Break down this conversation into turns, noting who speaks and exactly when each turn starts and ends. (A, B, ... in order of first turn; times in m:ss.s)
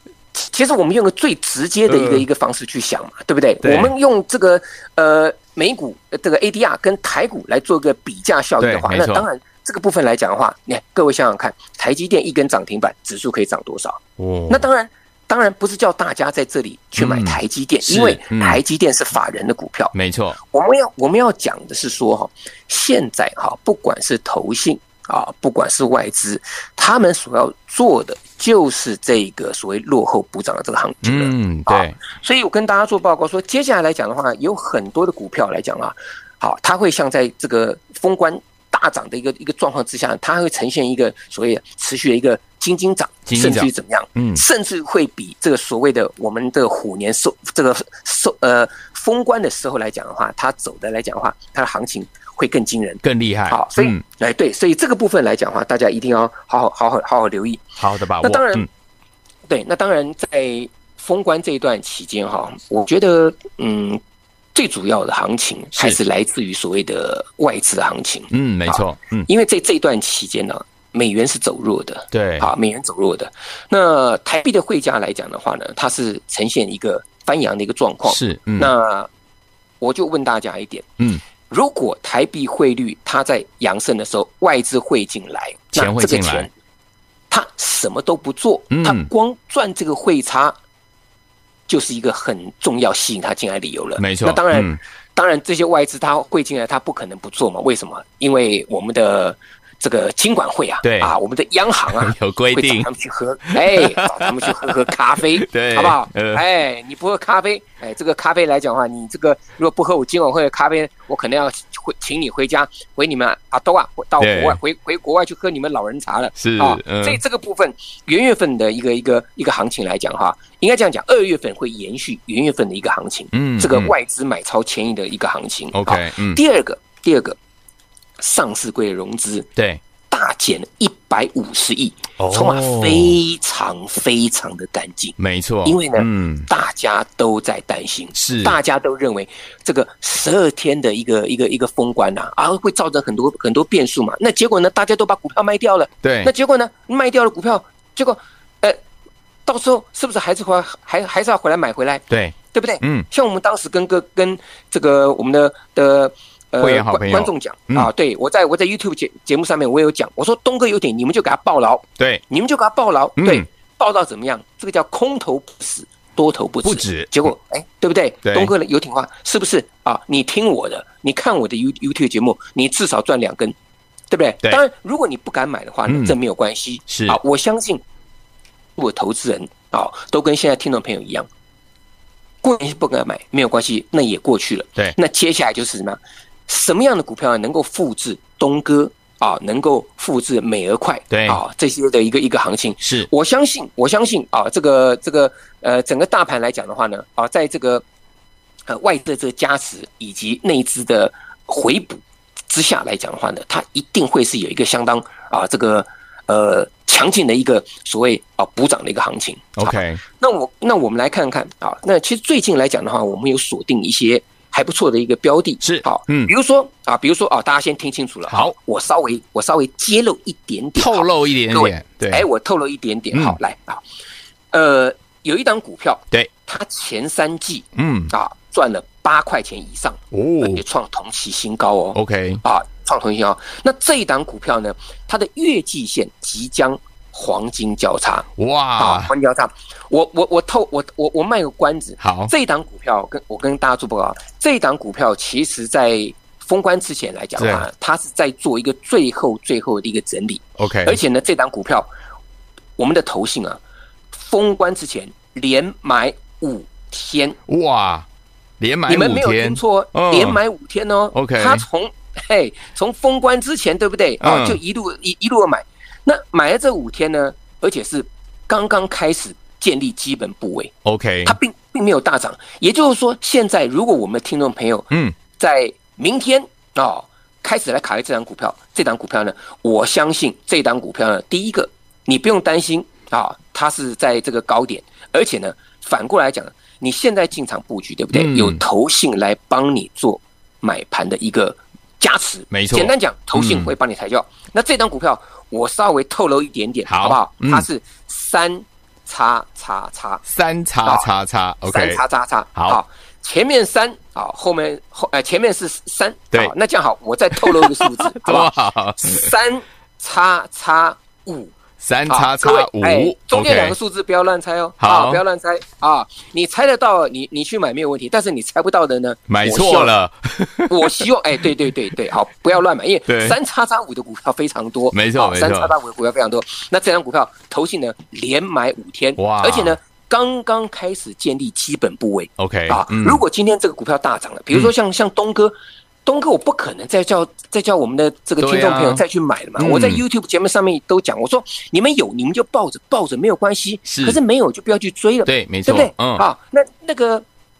0:00.3-0:57.7 A
0:01.9-0:02.2 B
0:03.6-0:03.9 B
0:08.6-0:09.2 B
0:14.2-0:14.6 B
0:17.0-0:18.6 B
0:19.9-0:20.4 B
0:31.0-0:32.0 B
0:43.3-0:44.4 B
0:53.0-0:54.0 B
0:57.8-0:58.7 B
0:58.2-0:58.7 A
0:59.5-1:04.0 A
1:04.5-1:19.1 A
1:08.3-1:09.3 B
1:12.1-1:12.5 B
1:18.1-1:18.7 B
1:19.8-1:20.9 A
1:21.5-1:26.5 A
1:25.7-1:26.5 B
1:27.3-1:30.6 A
1:28.7-1:29.1 B
1:31.7-2:07.4 A
1:34.0-1:34.8 B
1:40.8-1:41.1 B
1:41.9-1:42.9 B
1:43.5-1:44.8 B
1:45.4-1:46.4 B
1:54.2-1:54.6 B
1:56.4-1:57.2 B
2:03.3-2:03.9 B
2:05.7-2:06.4 B
2:08.2-2:09.5 A
2:10.1-2:28.8 A
2:12.2-2:13.2 B
2:15.2-2:16.5 B
2:18.2-2:18.6 B
2:26.0-2:26.3 B
2:29.4-2:53.6 A
2:32.1-2:33.1 B
2:36.6-2:37.9 B
2:43.2-2:43.4 B
2:46.6-2:47.3 B
2:48.2-2:48.5 B
2:54.1-2:57.8 A
2:55.9-2:56.1 B
2:56.9-2:57.2 B
2:58.8-3:01.3 A
3:02.4-3:17.8 A
3:11.1-3:11.4 B
3:12.8-3:13.1 B
3:18.7-3:43.8 A
3:29.6-3:30.0 B
3:35.6-3:36.3 B
3:38.3-3:38.5 B
3:40.8-3:42.3 B
3:44.5-3:58.3 A
3:47.8-3:48.1 B
3:50.1-3:50.6 B
3:51.9-3:52.4 B
3:58.4-3:59.1 B
3:58.8-4:11.9 A
4:02.0-4:02.3 B
4:07.4-4:07.7 B
4:10.6-4:11.0 B
4:12.8-4:13.6 A
4:14.1-4:17.4 A
4:17.5-4:18.0 B
4:18.6-4:20.4 B
4:18.9-4:30.7 A
4:21.1-4:21.7 B
4:24.2-4:24.6 B
4:30.8-4:31.4 B
4:31.2-5:00.2 A
4:48.1-4:48.6 B
4:52.5-4:53.7 B
4:56.9-4:57.7 B
5:00.3-5:02.0 B
5:01.7-5:11.5 A
5:02.6-5:02.8 B
5:07.3-5:09.3 B
5:11.8-5:13.8 B
5:12.1-5:19.9 A
5:14.8-5:15.2 B
5:19.3-5:21.1 B
5:20.7-5:47.2 A
5:23.1-5:23.4 B
5:24.9-5:25.7 B
5:29.2-5:29.8 B
5:32.4-5:33.2 B
5:38.4-5:39.0 B
5:39.6-5:40.0 B
5:43.9-5:44.2 B
5:45.3-5:46.2 B